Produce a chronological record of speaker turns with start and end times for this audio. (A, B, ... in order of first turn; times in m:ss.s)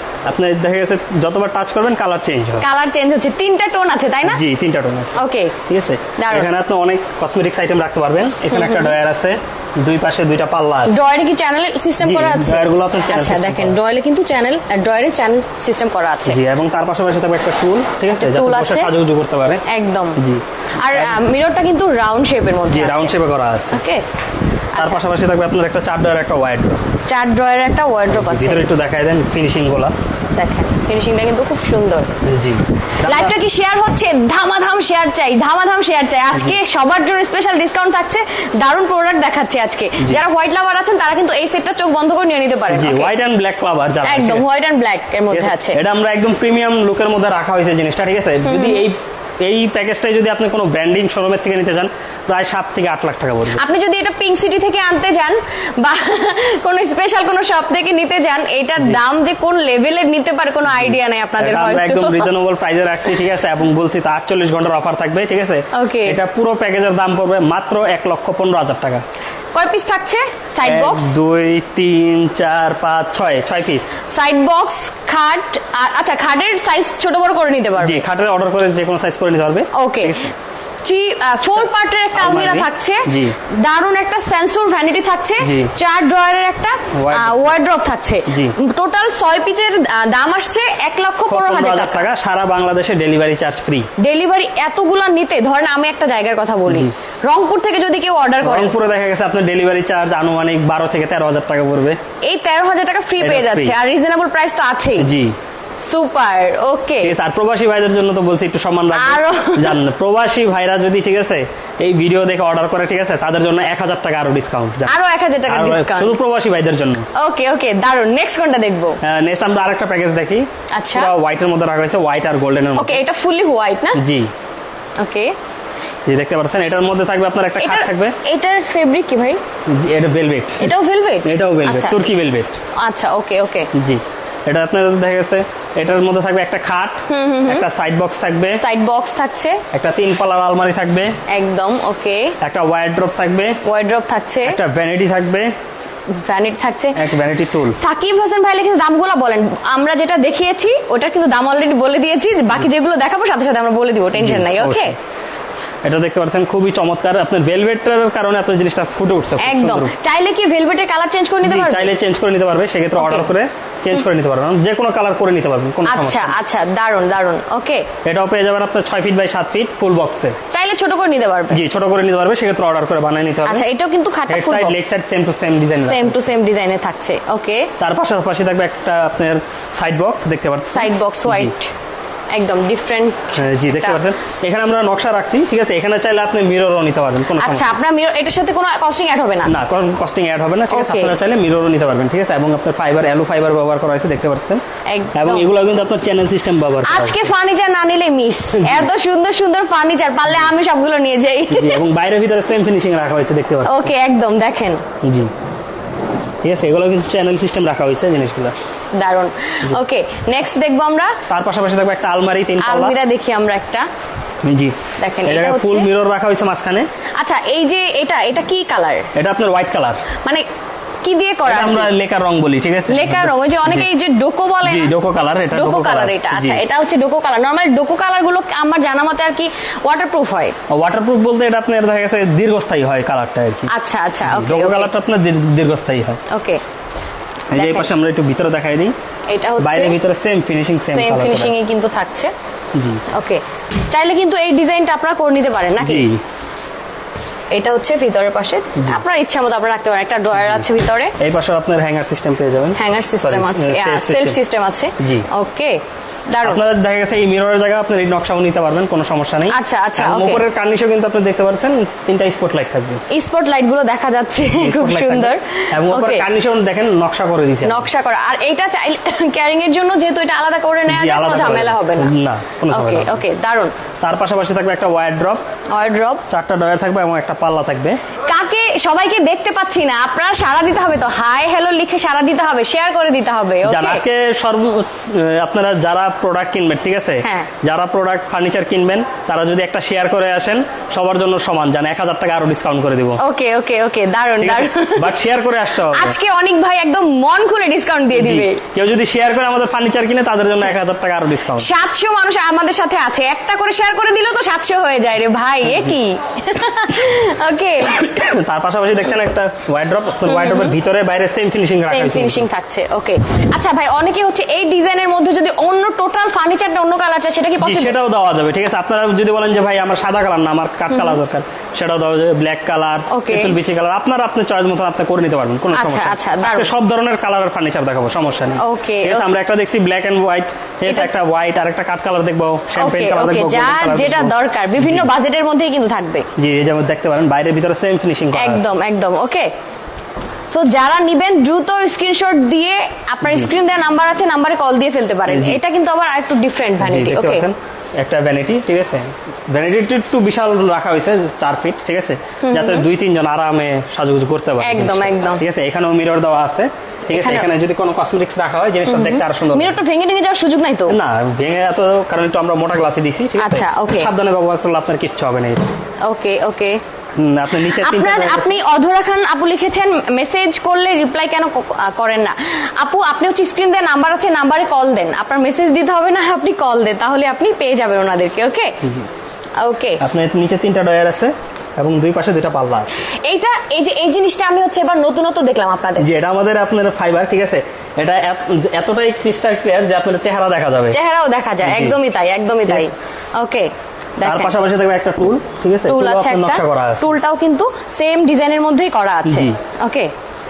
0:00.3-0:02.7 A
0:02.6-0:04.4 B
0:04.3-0:11.0 A
0:05.2-0:05.6 B
0:06.2-0:06.5 B
0:08.5-0:08.9 B
0:10.9-0:16.4 B
0:12.0-0:13.8 A
0:16.3-0:19.6 A
0:18.1-0:18.9 B
0:19.7-0:20.2 B
0:20.2-0:21.2 A
0:20.8-0:23.2 B
0:22.7-0:23.8 A
0:23.7-0:24.0 B
0:24.7-0:25.0 B
0:24.8-0:26.9 A
0:27.1-0:28.7 B
0:28.1-0:30.0 A
0:30.3-0:32.2 B
0:32.2-0:33.4 A
0:33.0-0:43.1 B
0:42.7-0:44.5 A
0:44.0-0:45.8 B
0:45.3-0:53.6 A
0:48.4-0:48.9 B
0:53.5-1:02.3 B
1:00.7-1:09.0 A
1:05.7-1:06.2 B
1:09.6-1:11.2 B
1:10.6-1:13.9 A
1:14.1-1:18.0 B
1:17.8-1:20.2 A
1:19.7-1:32.0 B
1:21.5-1:23.3 A
1:25.4-1:25.7 A
1:26.9-1:27.6 A
1:28.3-1:28.6 A
1:31.3-1:33.9 A
1:34.0-1:38.7 B
1:36.7-1:36.9 A
1:38.4-1:42.0 A
1:42.2-1:45.1 B
1:43.2-1:43.8 A
1:45.0-1:45.4 A
1:45.8-1:47.1 B
1:47.0-1:57.1 A
1:48.9-1:49.8 B
1:54.9-1:56.2 B
1:57.2-1:59.0 B
1:59.0-2:03.0 A
2:00.7-2:01.1 B
2:02.8-2:04.0 B
2:04.0-2:04.3 A
2:05.0-2:05.3 B
2:06.1-2:08.2 A
2:07.6-2:09.4 B
2:09.7-2:10.7 A
2:10.6-2:12.1 B
2:11.2-2:12.6 A
2:12.8-2:13.7 B
2:13.7-2:18.6 A
2:17.1-2:17.6 B
2:18.6-2:19.6 B
2:19.7-2:21.1 A
2:21.3-2:22.3 B
2:22.4-2:23.6 A
2:23.6-2:24.6 B
2:24.4-2:25.5 A
2:26.1-2:27.0 B
2:27.0-2:27.8 A
2:27.8-2:35.0 B
2:34.2-2:35.0 A
2:35.8-2:39.9 A
2:39.4-2:41.9 B
2:41.4-2:46.4 A
2:43.0-2:43.3 B
2:45.9-2:47.9 B
2:48.0-2:50.4 A
2:50.5-2:51.6 B
2:51.5-2:53.6 A
2:53.4-2:54.8 B
2:54.3-2:56.2 A
2:55.8-2:57.7 B
2:57.8-3:01.5 A
3:00.7-3:01.7 B
3:02.3-3:04.0 B
3:03.4-3:07.8 A
3:07.4-3:09.5 B
3:09.5-3:14.6 A
3:10.7-3:11.2 B
3:14.9-3:15.5 B
3:15.2-3:17.3 A
3:16.8-3:21.8 B
3:18.5-3:18.9 A
3:21.5-3:23.9 A
3:23.6-3:24.8 B
3:25.0-3:25.3 A
3:26.4-3:28.6 A
3:29.0-3:31.2 B
3:31.3-3:33.0 A
3:32.6-3:33.9 B
3:34.4-3:36.9 A
3:35.0-3:35.9 B
3:37.2-3:39.0 B
3:39.2-3:40.0 A
3:41.0-3:41.9 B
3:41.4-3:43.9 A
3:42.9-3:44.9 B
3:44.6-3:46.6 A
3:45.5-3:50.6 B
3:50.7-3:53.7 A
3:53.7-3:54.9 B
3:54.2-3:56.2 A
3:56.3-3:56.6 B
3:57.5-3:58.9 A
3:57.5-3:57.9 B
3:59.3-4:00.0 B
3:59.6-4:01.6 A
4:00.9-4:02.3 B
4:02.8-4:03.0 A
4:03.1-4:06.1 B
4:05.8-4:06.2 A
4:07.5-4:11.2 B
4:10.3-4:10.6 A
4:11.2-4:14.4 A
4:12.8-4:16.6 B
4:15.0-4:15.3 A
4:16.4-4:23.0 A
4:19.5-4:20.4 B
4:23.1-4:26.3 B
4:24.5-4:27.9 A
4:27.6-4:32.1 B
4:30.9-4:33.2 A
4:32.7-4:33.7 B
4:34.0-4:35.4 A
4:35.7-4:36.2 B
4:36.3-4:38.0 A
4:38.3-4:44.0 B
4:43.6-4:53.2 A
4:47.2-4:47.5 B
4:53.2-4:55.1 B
4:54.4-4:56.2 A
4:55.9-4:58.6 B
4:58.1-5:01.7 A
5:01.6-5:08.0 B
5:05.7-5:05.9 A
5:07.9-5:12.5 A
5:10.2-5:10.8 B
5:11.8-5:18.0 B
5:17.6-5:35.1 A
5:20.9-5:21.2 B
5:23.1-5:23.6 B
5:25.7-5:26.7 B
5:28.6-5:29.2 B
5:32.8-5:36.3 B
5:36.4-5:38.6 A
5:38.3-5:39.5 B
5:40.5-5:47.5 B
5:43.2-5:43.5 A
5:45.3-5:45.6 A
5:46.8-5:59.8 A
5:52.4-5:52.9 B
5:54.6-5:55.4 B
5:57.1-5:57.5 B
5:58.9-6:01.0 B
6:00.9-6:05.7 A
6:03.4-6:04.1 B
6:06.0-6:06.8 B
6:07.2-6:08.6 A
6:07.8-6:18.8 B
6:18.8-6:19.1 A
6:19.6-6:20.0 B
6:20.0-6:22.9 A
6:23.2-6:26.1 B
6:26.0-6:31.0 A
6:30.9-6:34.5 B
6:31.6-6:32.0 A
6:34.2-6:37.1 A
6:35.9-6:40.1 B
6:39.2-6:39.6 A